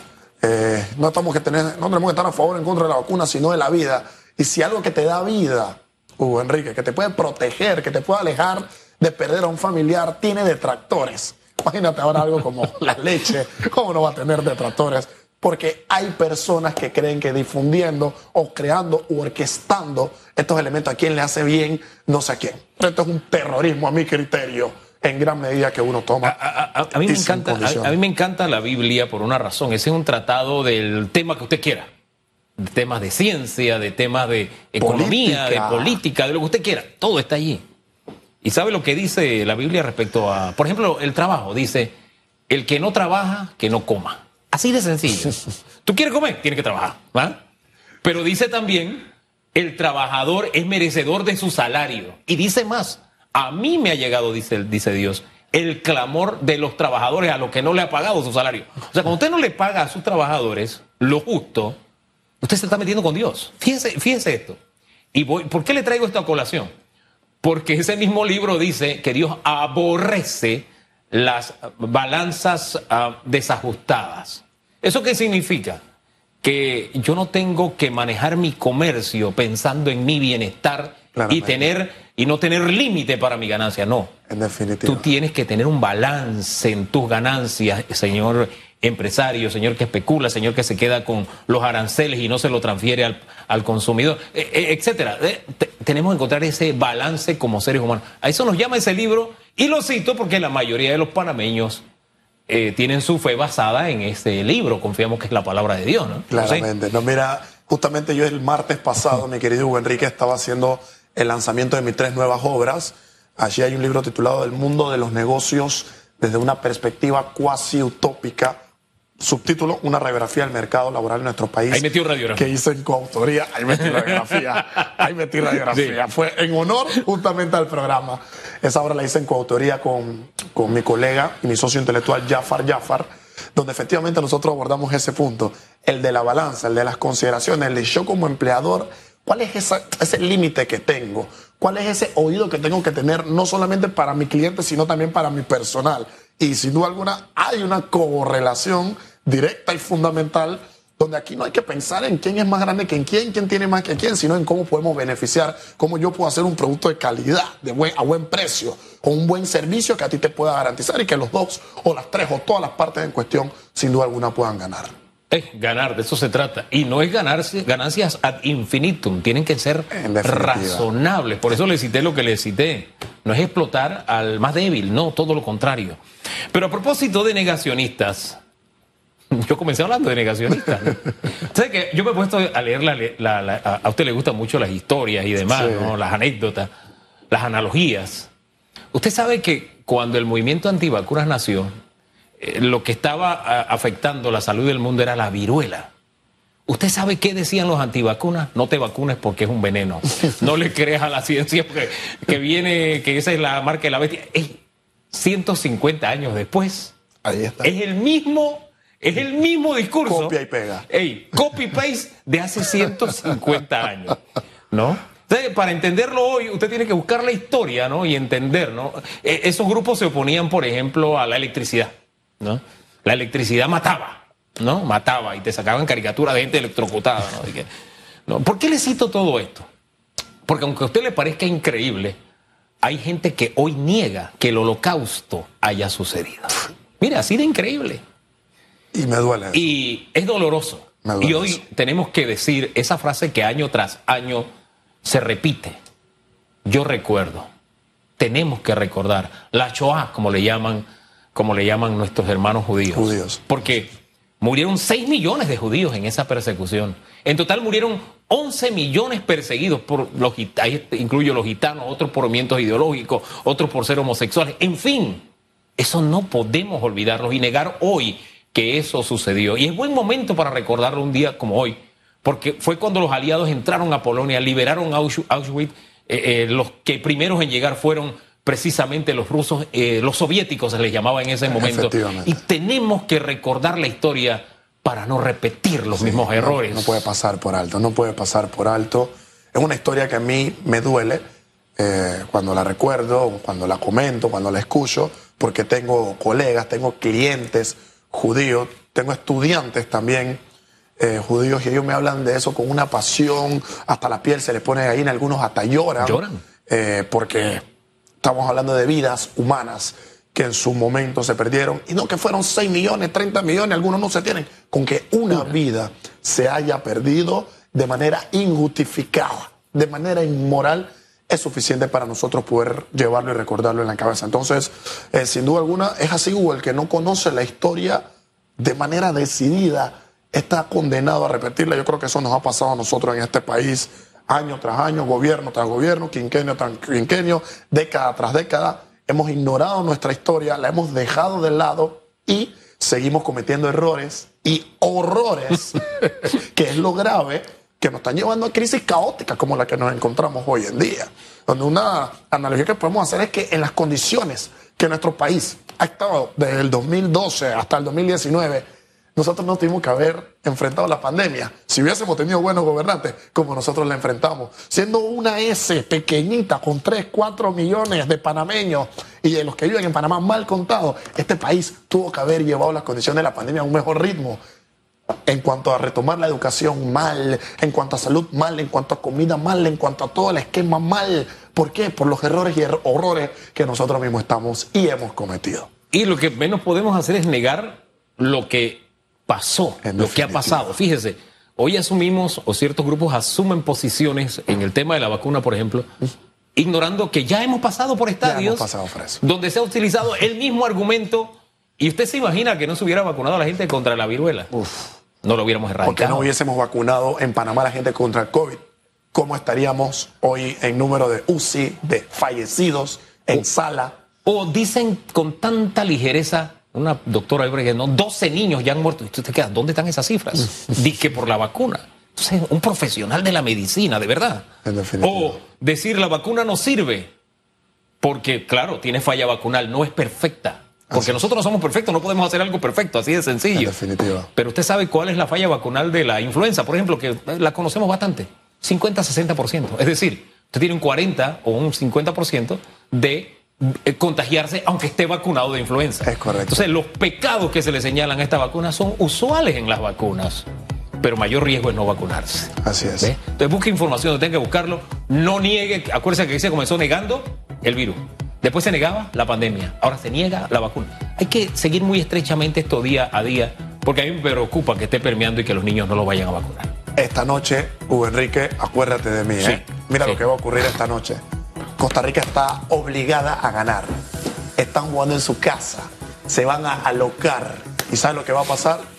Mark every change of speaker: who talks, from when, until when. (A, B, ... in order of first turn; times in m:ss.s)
0:00.4-0:26.4 A
0:26.2-0:31.9 B
0:27.1-0:28.0 A
0:32.6-0:37.6 B
0:34.8-0:36.0 A
0:38.4-0:41.9 B
0:42.5-0:47.4 B
0:48.0-1:01.8 B
1:02.4-1:04.6 B
1:05.1-1:06.7 B
1:07.4-1:15.8 B
1:16.4-1:24.1 B
1:21.1-1:21.7 A
1:24.3-1:25.1 A
1:24.8-1:41.8 B
1:42.5-1:46.7 B
1:46.3-1:58.6 A
1:59.2-2:44.9 A
2:01.7-2:02.5 B
2:04.0-2:04.5 B
2:05.7-2:06.0 B
2:45.3-2:58.4 B
2:49.9-2:50.9 A
2:59.3-3:06.7 B
3:05.5-3:05.9 A
3:07.3-3:08.3 B
3:08.9-3:11.7 B
3:12.4-3:15.9 B
3:16.7-3:27.0 B
3:27.2-3:27.7 A
3:27.6-3:30.4 B
3:30.0-3:30.9 A
3:30.9-3:34.2 B
3:34.7-3:47.7 B
3:48.3-3:49.7 B
3:50.5-3:52.2 B
3:52.8-3:58.0 B
3:58.9-3:59.6 A
3:59.5-4:04.5 B
4:01.0-4:01.6 A
4:05.0-4:05.8 B
4:06.7-4:07.5 B
4:08.2-4:25.3 B
4:12.9-4:13.4 A
4:25.8-4:47.1 B
4:41.5-4:42.4 A
4:46.0-4:51.2 A
4:51.8-5:00.4 A
5:01.0-5:07.6 A
5:06.0-5:06.4 B
5:08.2-5:28.0 A
5:28.6-5:58.6 A
5:59.2-6:14.4 A
6:15.3-6:25.7 A
6:25.9-6:35.9 B
6:29.8-6:30.8 A
6:36.6-6:38.7 B
6:38.2-6:39.2 A
6:39.2-6:46.3 B
6:45.8-6:48.6 A
6:49.1-6:53.9 A
6:54.3-7:04.4 B
7:04.6-7:05.4 A
7:05.0-7:07.1 B
7:08.0-7:13.8 B
7:13.6-7:14.3 A
7:14.4-7:30.5 B
7:26.0-7:26.6 A
7:31.0-7:46.7 B
7:32.6-7:33.1 A
7:47.0-7:51.2 A
7:49.4-7:50.2 B
7:51.8-7:53.9 A
7:54.6-7:58.8 A